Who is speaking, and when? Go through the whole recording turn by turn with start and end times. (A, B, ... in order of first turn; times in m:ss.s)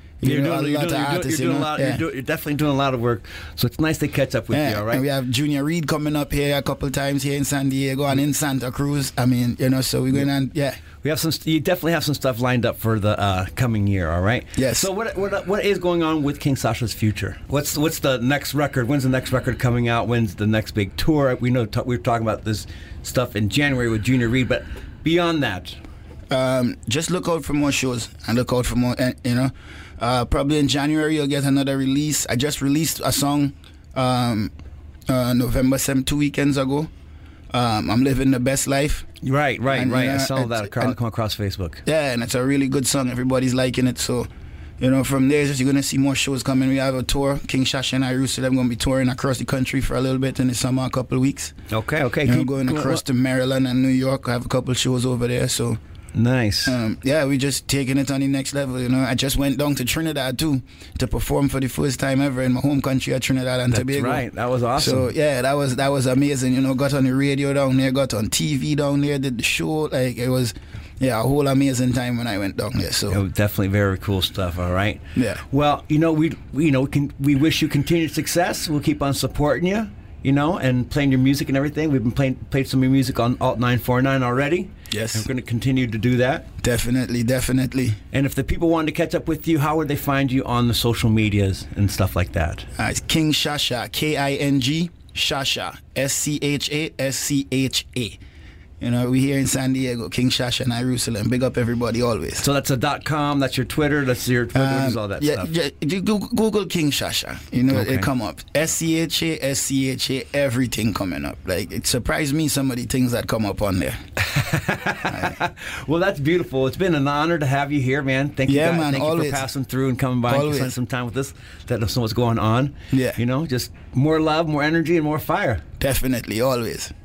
0:00.2-0:02.0 A
0:00.2-0:05.0 B
0:04.5-0:10.8 A
0:11.0-0:25.8 B
0:14.6-0:14.9 A
0:26.3-0:34.5 A
0:35.1-0:36.9 A
0:37.5-0:39.1 A
0:39.2-0:41.8 B
0:39.7-0:41.0 A
0:41.8-0:44.3 A
0:44.8-0:51.5 A
0:51.7-0:53.0 B
0:52.2-0:55.8 A
0:56.1-0:56.8 B
0:56.6-1:04.2 A
1:03.7-1:05.1 B
1:04.8-1:13.2 A
1:13.1-1:26.5 B
1:15.1-1:15.4 A
1:24.9-1:25.3 A
1:26.6-1:28.0 A
1:28.1-1:32.7 B
1:32.8-1:38.2 A
1:38.8-1:42.4 A
1:42.4-1:45.5 B
1:44.5-1:54.0 A
1:47.7-1:48.1 B
1:54.2-2:05.6 B
1:55.1-1:55.4 A
1:58.4-1:59.5 A
2:00.2-2:00.8 A
2:02.9-2:03.2 A
2:05.8-2:06.9 A